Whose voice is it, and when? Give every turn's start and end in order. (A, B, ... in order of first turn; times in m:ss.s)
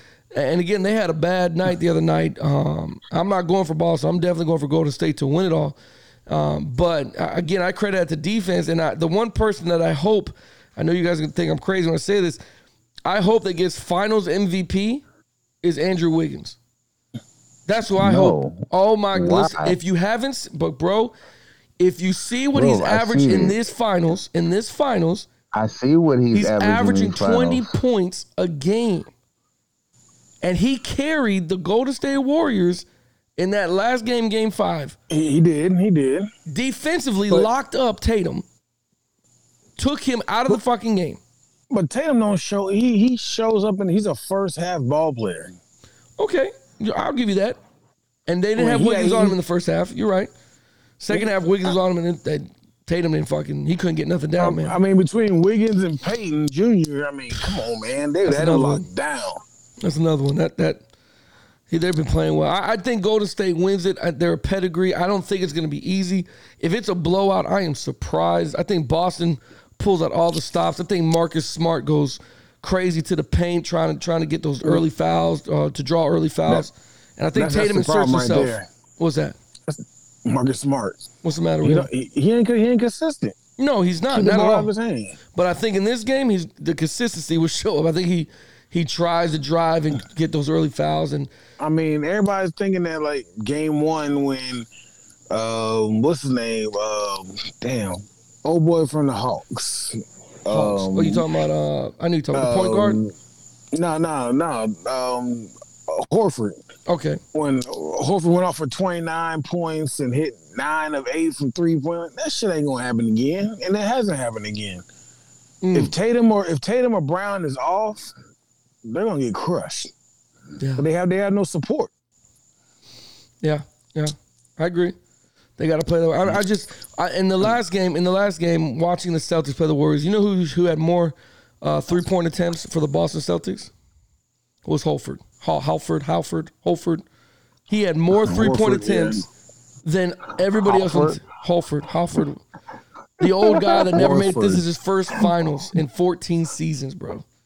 0:00.3-0:05.8 A
0:06.3-0:12.4 A
0:13.0-0:15.0 A
0:15.6-0:16.6 A
0:17.7-0:21.1 A
0:18.0-0:19.8 B
0:21.8-0:25.3 A
0:22.5-0:23.6 B
0:25.5-0:27.7 B
0:26.3-0:29.1 A
0:30.4-0:35.0 A
0:35.1-0:36.3 C
0:36.5-0:38.4 A
0:39.8-0:41.2 A
0:41.7-0:45.6 C
0:46.2-0:47.6 A
0:48.3-0:50.3 A
0:48.6-0:49.4 C
0:51.0-0:54.8 A
0:54.4-0:59.4 C
0:58.2-0:58.8 A
0:59.8-1:00.8 A
1:01.7-1:19.4 A
1:17.4-1:18.7 C
1:19.7-1:21.1 C
1:21.2-1:21.9 A
1:21.6-1:23.4 C
1:23.6-1:24.7 A
1:24.1-1:25.2 C
1:25.3-1:31.3 A
1:31.6-1:34.7 C
1:35.3-1:40.9 C
1:40.5-1:41.2 B
1:40.5-1:43.0 A
1:42.3-1:43.1 C
1:43.7-1:46.6 C
1:46.9-1:47.2 A
1:47.3-1:54.8 C
1:55.6-1:55.9 A
1:55.7-1:58.1 C
1:58.8-1:59.9 C
2:00.6-2:00.8 A
2:00.8-2:01.9 C
2:03.4-2:04.9 A
2:05.6-2:13.7 A
2:14.6-2:17.0 A
2:17.7-2:19.2 A
2:18.2-2:19.2 C
2:19.8-2:22.4 A
2:20.6-2:21.2 B
2:23.2-2:27.2 A
2:23.7-2:24.6 B